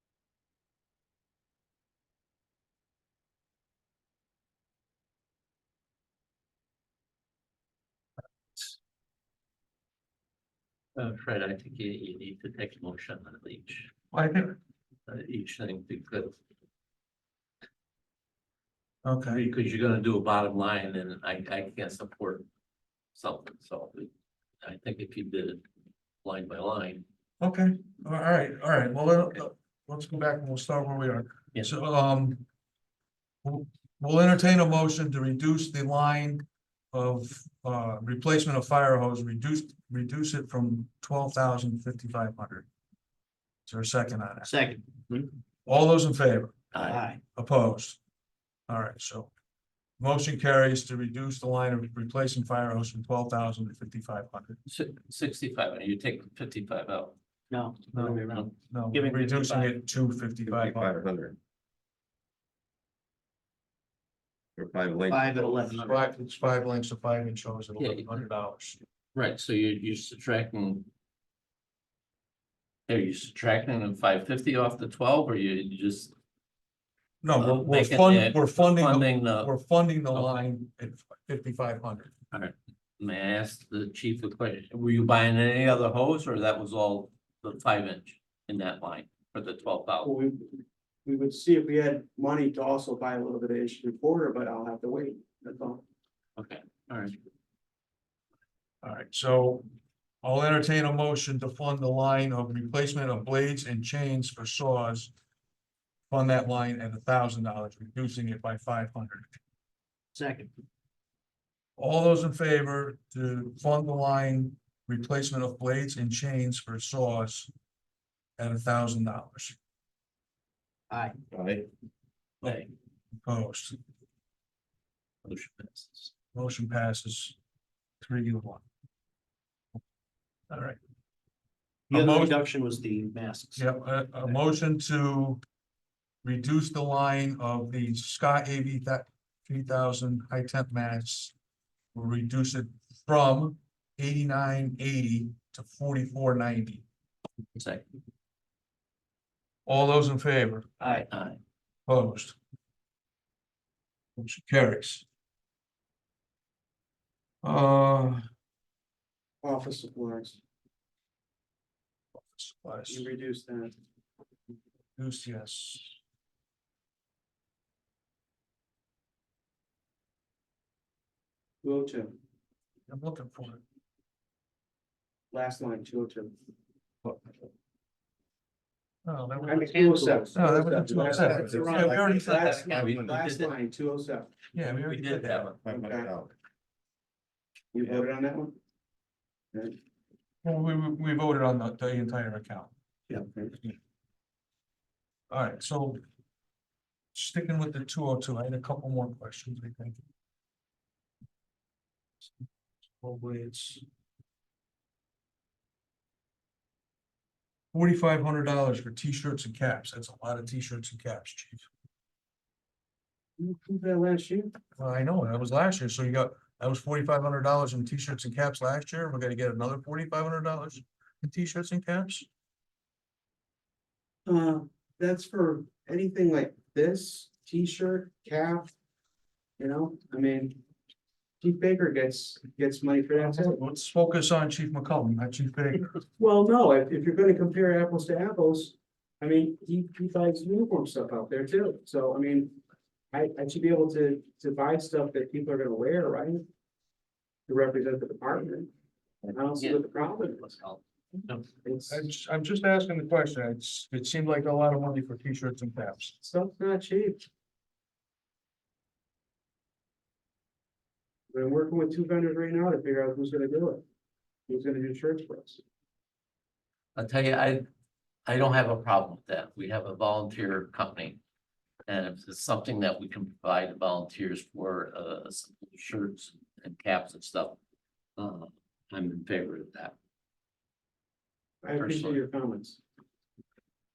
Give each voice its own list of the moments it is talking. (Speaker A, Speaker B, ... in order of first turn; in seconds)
Speaker A: 11.0-13.9, 15.1-16.4, 19.3-22.5, 23.2-24.1, 24.6-25.6, 26.2-27.0, 46.7-47.0, 54.7-57.2, 67.8-68.2, 69.1-70.9, 72.9-76.1, 77.4-79.5, 80.1-80.4, 82.3-90.1, 96.4-97.2, 122.4-122.7, 125.2-126.1, 147.6-147.8, 150.8-151.4, 181.6-183.5, 184.9-185.6, 249.2-251.5, 267.0-267.6, 268.3-271.2, 271.9-277.6, 278.2-279.9, 281.8-282.2
Speaker B: 14.1-14.6, 19.0-19.4, 27.4-32.5, 33.4-42.7, 43.7-44.5, 45.7-46.7, 47.4-48.0, 48.7-49.3, 50.0-54.6, 57.9-61.0, 65.5-68.8, 77.2-82.1, 98.8-99.7, 100.2-105.1, 106.1-109.4, 111.8-117.5, 118.4-119.6, 123.2-123.8, 126.3-127.4, 128.0-128.7, 130.5-130.8, 131.9-132.4, 133.6-135.4, 136.2-141.3, 141.9-146.8, 149.7-150.8, 151.9-152.4, 154.2-155.1, 157.4-158.2, 162.2-163.1, 165.0-166.0, 172.9-173.6, 179.1-182.6, 184.5-185.5, 190.4-192.7, 195.3-196.0, 197.1-200.0, 203.0-203.8, 207.7-211.7, 214.8-222.3, 233.2-235.9, 251.9-256.2
Speaker C: 44.4-45.3, 46.8-47.2, 57.5-59.8, 65.1-66.0, 110.1-110.5, 120.9-121.2, 131.9-133.6, 179.6-180.3
Speaker D: 60.5-61.4, 64.6-65.5, 121.3-121.7, 181.3-182.1, 182.7-183.3, 185.6-186.3
Speaker E: 90.0-95.8, 159.4-160.4, 162.9-163.8, 171.6-172.2, 175.3-176.3, 179.4-184.3, 185.7-186.1, 187.7-188.6, 193.1-193.6, 213.4-214.5, 224.3-228.7, 229.6-230.6, 231.4-233.6, 236.2-242.6, 243.1-246.4, 247.5-248.7, 249.3-250.5, 251.6-252.1, 256.2-257.3, 261.3-263.8, 264.5-265.6, 281.6-282.8